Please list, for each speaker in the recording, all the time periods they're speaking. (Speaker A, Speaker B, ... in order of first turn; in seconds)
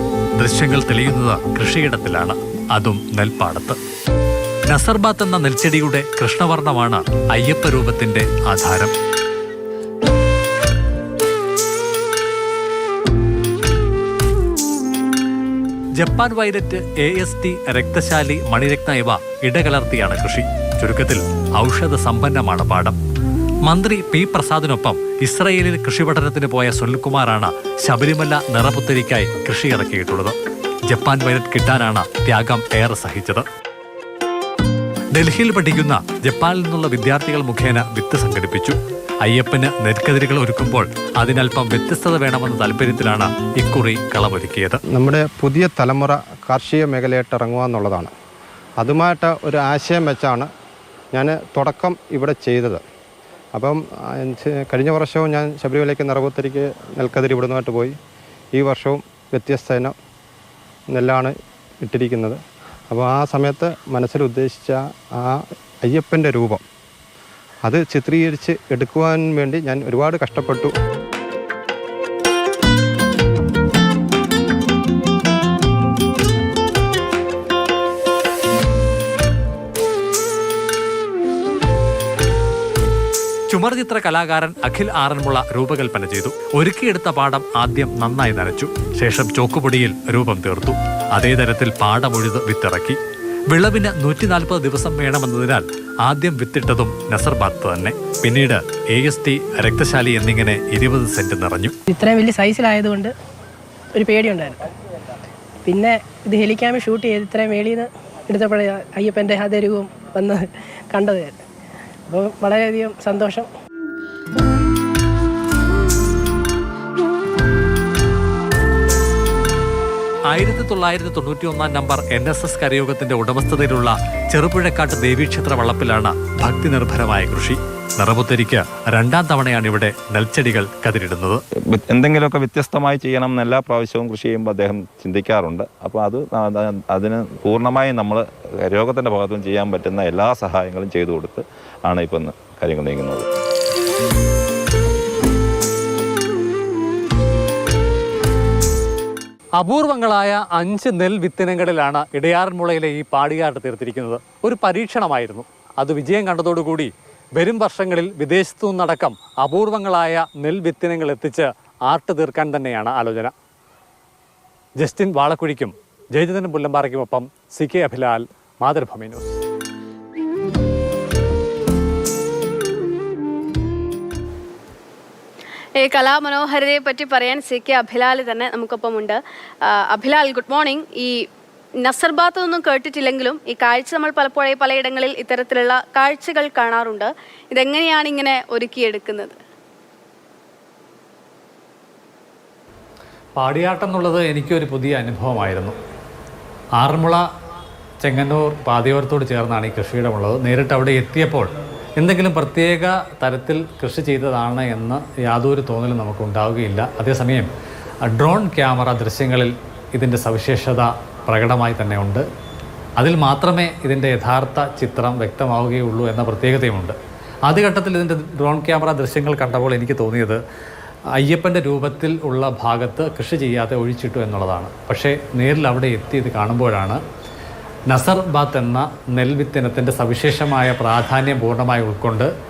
Speaker A: 0.4-3.8, 4.7-8.9, 16.0-23.0, 23.6-30.3, 30.9-33.5, 35.1-44.8, 83.5-101.7, 120.3-131.4, 149.6-163.3, 164.8-169.2, 193.3-195.7, 196.8-197.2, 198.0-207.5, 208.1-212.2, 213.0-220.4, 221.2-227.0, 227.9-232.3
Speaker B: 44.9-48.1, 48.8-50.5, 51.1-52.8, 53.5-58.0, 58.5-59.9, 60.9-62.4, 62.9-66.6, 67.6-70.7
Speaker C: 101.9-103.1, 103.9-104.6, 105.6-111.4, 112.1-113.5
Speaker D: 131.7-143.3
Speaker E: 175.8-181.1, 181.8-189.3